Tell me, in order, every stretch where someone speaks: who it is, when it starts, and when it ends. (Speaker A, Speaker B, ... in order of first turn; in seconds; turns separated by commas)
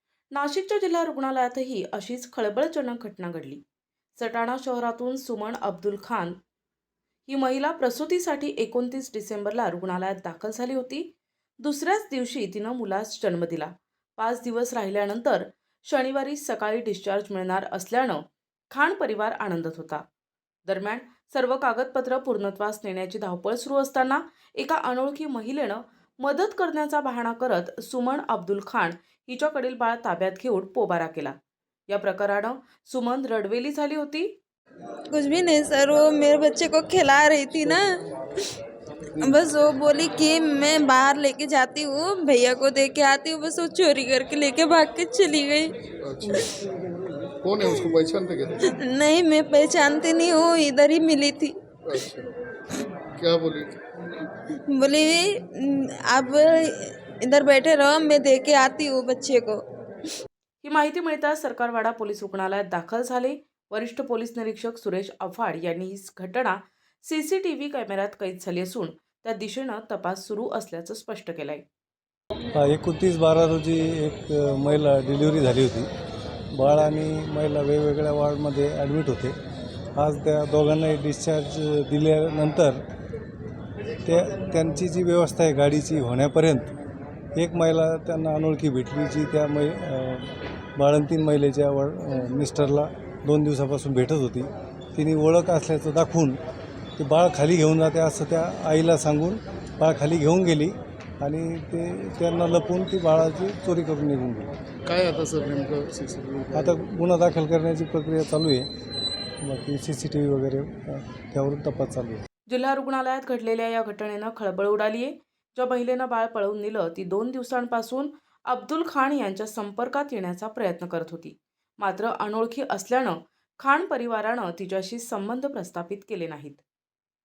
Speaker A: 0.3-3.6, Speaker A: 4.2-6.4, Speaker A: 7.3-20.0, Speaker A: 20.6-31.4, Speaker A: 31.9-34.3, Speaker B: 35.1-37.9, Speaker B: 39.2-45.7, Speaker C: 46.0-46.5, Speaker C: 47.4-48.6, Speaker B: 48.7-51.5, Speaker C: 51.9-52.3, Speaker C: 53.2-53.8, Speaker B: 54.7-59.6, Speaker A: 60.6-71.6, Speaker D: 72.5-75.9, Speaker D: 76.5-79.4, Speaker D: 80.0-82.8, Speaker D: 84.0-86.7, Speaker D: 87.3-96.4, Speaker D: 97.0-104.5, Speaker C: 104.8-106.8, Speaker D: 106.5-108.7, Speaker D: 109.4-112.2, Speaker A: 112.5-126.6